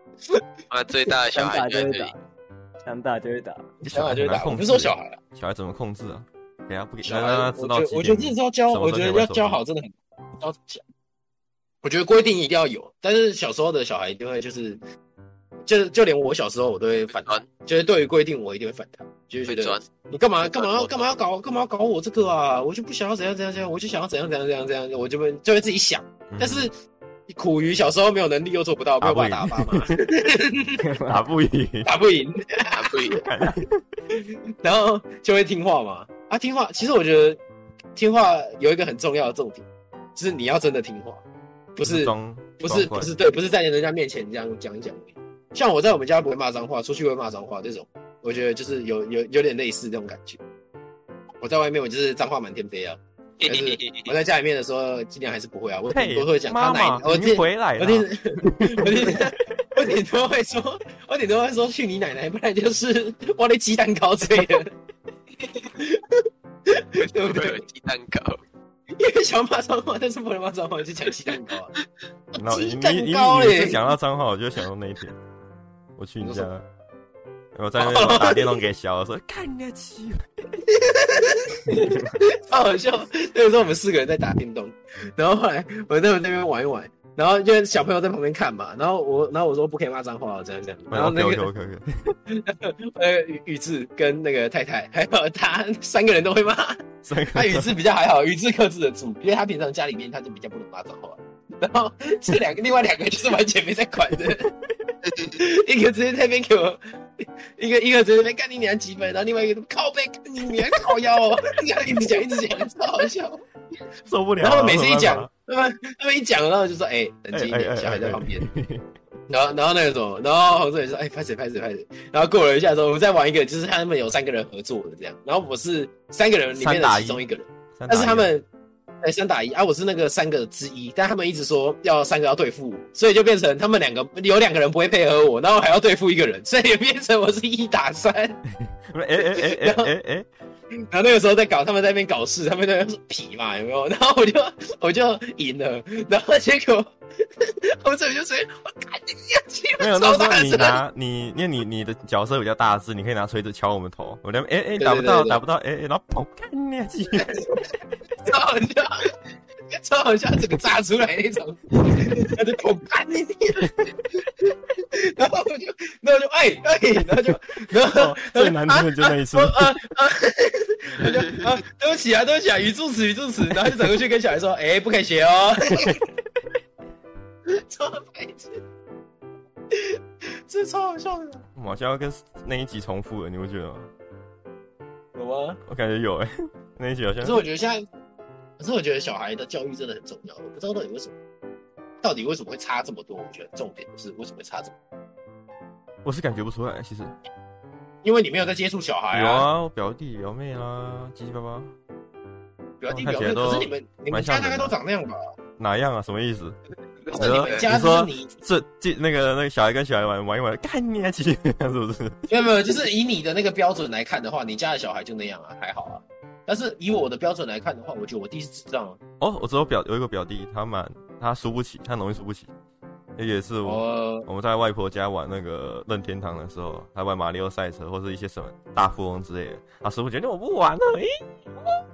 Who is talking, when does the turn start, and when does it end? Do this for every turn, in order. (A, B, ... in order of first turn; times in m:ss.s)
0:00.7-0:02.1 A
0:01.3-0:02.2 B
0:02.8-0:03.7 B
0:03.8-0:05.2 C
0:03.8-0:09.6 D
0:07.0-0:10.8 C
0:11.8-0:14.8 C
0:15.7-0:26.7 C
0:17.1-0:17.4 A
0:19.5-0:19.9 A
0:20.4-0:21.1 A
0:26.3-0:26.7 D
0:27.3-0:30.8 C
0:29.0-0:30.0 D
0:30.8-0:31.2 B
0:31.0-0:31.9 D
0:31.8-0:33.1 C
0:32.8-0:33.2 A
0:33.1-0:33.8 D
0:34.1-0:37.4 C
0:38.0-0:41.2 C
0:41.8-0:50.4 C
0:41.8-0:43.1 D
0:51.4-1:04.7 C
0:53.4-0:54.1 A
0:55.9-0:59.3 D
1:05.4-1:07.6 C
1:07.0-1:08.4 A
1:09.0-1:11.7 C
1:12.4-1:13.8 C
1:12.4-1:15.2 D
1:16.0-1:16.6 D
1:16.2-1:16.5 C
1:17.5-1:20.3 D
1:17.8-1:18.6 C
1:20.7-1:31.5 C
1:30.9-1:32.2 D
1:32.3-1:44.5 C
1:37.0-1:37.8 D
1:45.2-1:53.4 C
1:54.1-1:55.3 D
1:54.4-1:58.5 C
1:57.3-1:58.9 D
1:59.3-2:08.5 C
2:06.6-2:07.2 D
2:07.8-2:08.3 D
2:09.0-2:18.4 C
2:18.7-2:20.3 D
2:19.2-2:19.9 C
2:20.9-2:30.8 C
2:29.8-2:37.4 D
2:34.8-2:35.4 C
2:37.2-2:37.7 C
2:38.2-2:39.1 C
2:39.7-2:44.3 C
2:44.9-2:56.0 C
2:47.9-2:49.8 D
2:57.5-2:58.6 C
3:00.5-3:01.4 C
3:01.6-3:03.9 D
3:05.1-3:05.6 C
3:05.7-3:07.4 D
3:07.2-3:07.8 C
3:08.6-3:11.2 C
3:12.0-3:14.8 C
3:16.0-3:17.1 D
3:18.0-3:19.5 C
3:19.1-3:21.7 D
3:22.8-3:25.2 C
3:22.9-3:24.7 D
3:25.6-3:26.6 D
3:27.1-3:27.6 A
3:27.1-3:28.3 C
3:27.2-3:32.3 D
3:32.3-3:39.0 C
3:39.2-3:42.5 D
3:43.2-3:51.8 D
3:43.6-3:44.3 C